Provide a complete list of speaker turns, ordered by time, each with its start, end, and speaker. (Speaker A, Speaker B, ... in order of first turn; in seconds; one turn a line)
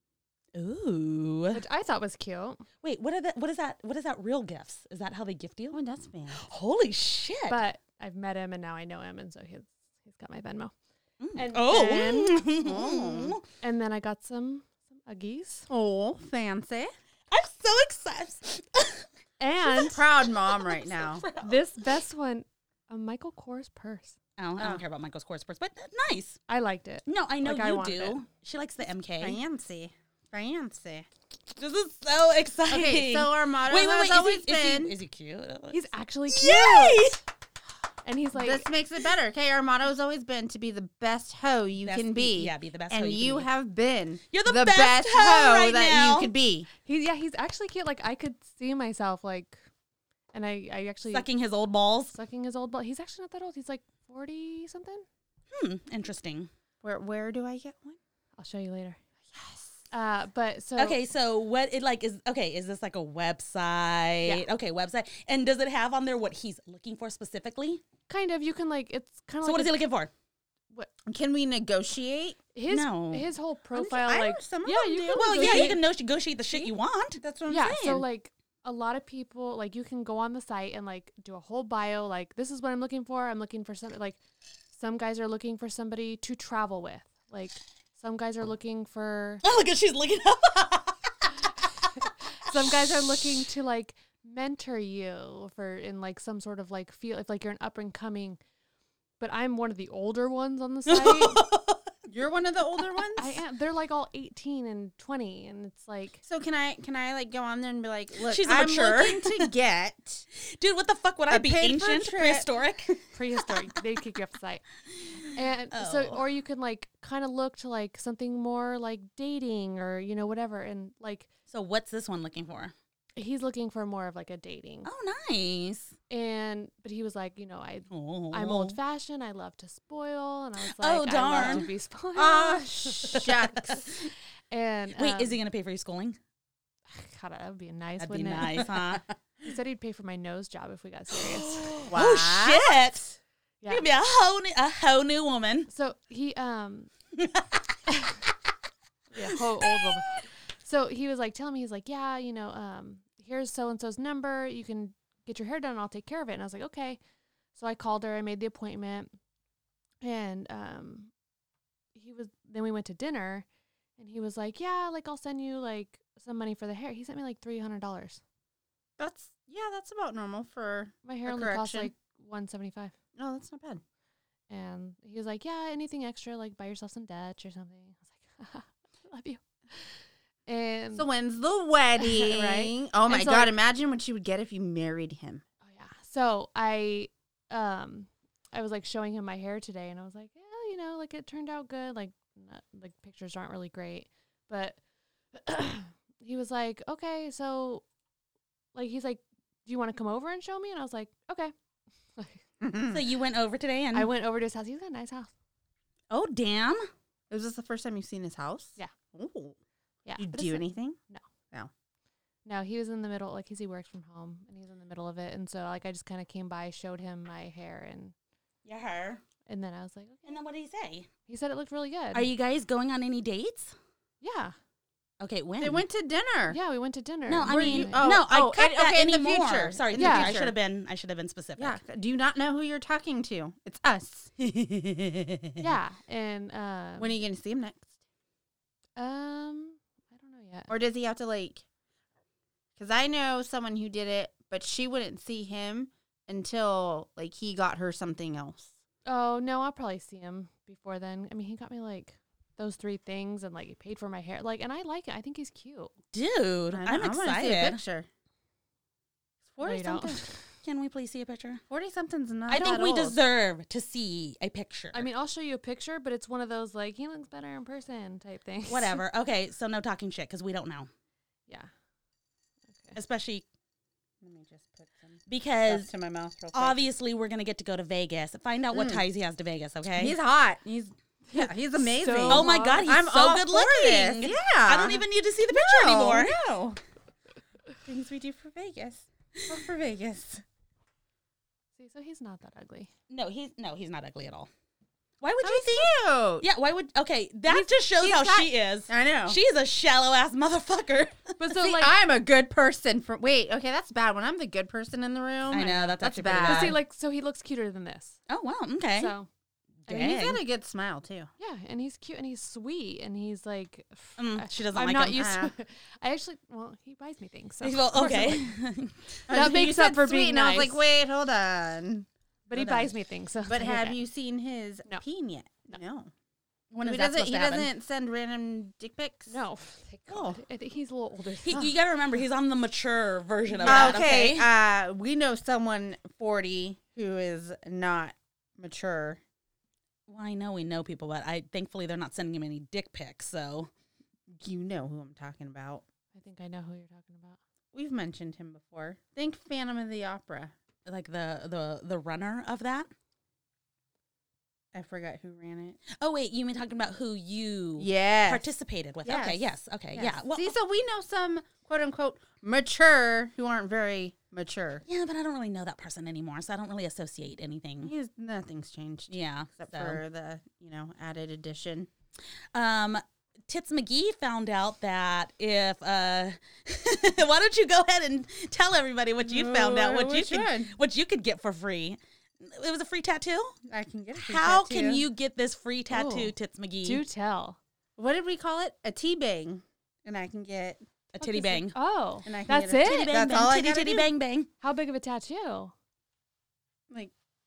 Speaker A: 0.6-1.6
Speaker B: 1.5-2.6
Speaker A: 2.8-5.8
Speaker C: 5.7-6.5
Speaker A: 6.4-7.6
Speaker B: 7.5-10.7
Speaker A: 11.2-13.4
Speaker B: 11.3-12.5
Speaker C: 12.6-13.4
Speaker B: 13.6-15.7
Speaker C: 15.7-16.9
Speaker A: 17.3-19.1
Speaker B: 19.4-20.1
Speaker C: 19.8-21.3
Speaker A: 20.4-21.7
Speaker B: 21.4-24.2
Speaker A: 24.4-26.4
Speaker C: 24.6-24.8
Speaker B: 26.5-28.2
Speaker A: 27.1-29.4
Speaker C: 29.2-31.1
Speaker A: 31.6-37.2
Speaker C: 32.7-35.0
Speaker B: 35.7-37.2
Speaker B: 38.0-38.7
Speaker C: 38.3-46.7
Speaker A: 41.8-43.5
Speaker A: 44.3-46.3
Speaker B: 46.9-49.6
Speaker B: 50.3-51.3
Speaker A: 51.1-52.1
Speaker B: 52.1-55.0
Speaker A: 55.5-56.5
Speaker C: 56.8-58.0
Speaker B: 58.4-59.0
Speaker C: 59.3-59.8
Speaker B: 59.9-61.0
Speaker A: 60.8-67.8
Speaker B: 68.1-69.8
Speaker A: 69.4-70.1
Speaker C: 71.1-72.4
Speaker B: 72.5-75.8
Speaker A: 72.7-73.3
Speaker C: 73.7-75.8
Speaker A: 75.1-77.2
Speaker C: 76.5-78.0
Speaker B: 77.5-84.2
Speaker B: 84.7-89.4
Speaker A: 89.4-91.3
Speaker B: 92.3-98.4
Speaker B: 99.2-101.4
Speaker A: 100.9-101.9
Speaker C: 102.1-103.4
Speaker B: 103.2-106.2
Speaker C: 106.2-110.2
Speaker A: 108.2-109.5
Speaker A: 110.4-113.1
Speaker C: 111.3-112.5
Speaker B: 113.1-114.6
Speaker B: 115.3-121.3
Speaker A: 115.7-116.2
Speaker A: 121.5-122.7
Speaker B: 123.2-124.9
Speaker A: 124.8-125.9
Speaker B: 126.1-133.2
Speaker A: 127.9-128.8
Speaker A: 130.8-131.7
Speaker C: 131.3-133.9
Speaker A: 133.1-134.0
Speaker B: 134.5-135.4
Speaker A: 135.0-136.2
Speaker B: 136.9-138.7
Speaker A: 138.0-139.0
Speaker B: 139.4-141.8
Speaker A: 141.2-143.1
Speaker C: 141.9-142.8
Speaker B: 143.6-143.9
Speaker A: 143.7-145.7
Speaker B: 145.7-146.9
Speaker A: 147.2-147.5
Speaker B: 147.9-148.2
Speaker B: 149.1-157.0
Speaker B: 157.6-159.1
Speaker B: 160.0-161.1
Speaker B: 161.9-163.4
Speaker B: 164.0-168.2
Speaker C: 169.0-171.9
Speaker B: 171.0-172.9
Speaker C: 173.2-173.8
Speaker B: 174.5-179.9
Speaker B: 180.5-181.1
Speaker C: 181.0-185.4
Speaker B: 182.0-183.5
Speaker B: 185.6-194.8
Speaker B: 195.3-197.8
Speaker B: 198.8-201.5
Speaker B: 202.2-202.4
Speaker C: 202.6-203.0
Speaker A: 202.9-204.1
Speaker B: 203.9-205.3
Speaker A: 206.1-206.9
Speaker C: 207.3-209.6
Speaker B: 210.1-211.2
Speaker C: 210.2-211.0
Speaker B: 212.5-218.1
Speaker A: 218.7-219.2
Speaker B: 219.5-220.4
Speaker A: 220.2-221.1
Speaker B: 221.3-222.3
Speaker A: 222.1-223.8
Speaker B: 224.2-224.6
Speaker A: 225.2-225.8
Speaker C: 225.6-226.6
Speaker B: 226.5-228.0
Speaker A: 227.3-231.8
Speaker C: 227.4-230.6
Speaker B: 230.0-230.3
Speaker C: 231.6-234.3
Speaker A: 234.4-235.7
Speaker B: 235.6-237.2
Speaker C: 237.0-237.9
Speaker B: 239.0-240.7
Speaker C: 240.7-241.6
Speaker C: 242.8-248.8
Speaker B: 249.1-255.9
Speaker A: 256.1-257.8
Speaker C: 256.7-258.1
Speaker C: 259.4-260.2
Speaker B: 259.6-260.4
Speaker A: 260.6-261.6
Speaker C: 261.7-263.2
Speaker A: 262.5-265.1
Speaker B: 264.9-269.0
Speaker A: 268.7-270.9
Speaker A: 272.9-273.4
Speaker C: 274.2-276.8
Speaker A: 275.3-275.9
Speaker A: 276.5-280.2
Speaker C: 278.7-279.0
Speaker C: 279.9-286.8
Speaker B: 281.3-282.9
Speaker A: 282.2-286.4
Speaker C: 287.9-290.4
Speaker B: 291.8-292.9
Speaker A: 293.1-294.5
Speaker A: 295.2-301.4
Speaker C: 295.4-296.5
Speaker C: 298.0-299.4
Speaker B: 301.4-301.9
Speaker C: 301.6-306.8
Speaker A: 305.5-306.8
Speaker B: 306.4-308.2
Speaker A: 308.3-309.1
Speaker B: 309.0-309.3
Speaker A: 309.9-310.4
Speaker C: 309.9-311.3
Speaker B: 311.4-318.5
Speaker A: 314.2-315.4
Speaker C: 315.1-315.5
Speaker A: 317.6-319.2
Speaker C: 318.0-318.3
Speaker C: 319.3-322.9
Speaker B: 319.3-320.8
Speaker B: 322.5-324.0
Speaker C: 323.4-326.1
Speaker A: 326.7-327.7
Speaker C: 326.8-329.3
Speaker B: 329.3-331.7
Speaker C: 330.1-330.4
Speaker A: 331.4-334.5
Speaker B: 333.6-334.0
Speaker C: 333.6-339.2
Speaker A: 340.1-343.7
Speaker C: 344.3-345.8
Speaker B: 346.1-347.4
Speaker C: 347.7-350.5
Speaker A: 350.9-352.9
Speaker C: 354.7-355.8
Speaker A: 355.9-360.5
Speaker C: 357.8-358.5
Speaker C: 359.0-364.8
Speaker A: 364.9-367.9
Speaker C: 367.8-371.9
Speaker A: 369.1-370.0
Speaker A: 372.5-383.6
Speaker C: 379.2-380.7
Speaker C: 383.7-385.1
Speaker A: 384.1-387.0
Speaker B: 385.9-387.6
Speaker C: 388.0-390.8
Speaker A: 391.1-391.8
Speaker B: 391.2-393.1
Speaker C: 392.2-394.1
Speaker A: 392.7-394.5
Speaker B: 394.6-395.7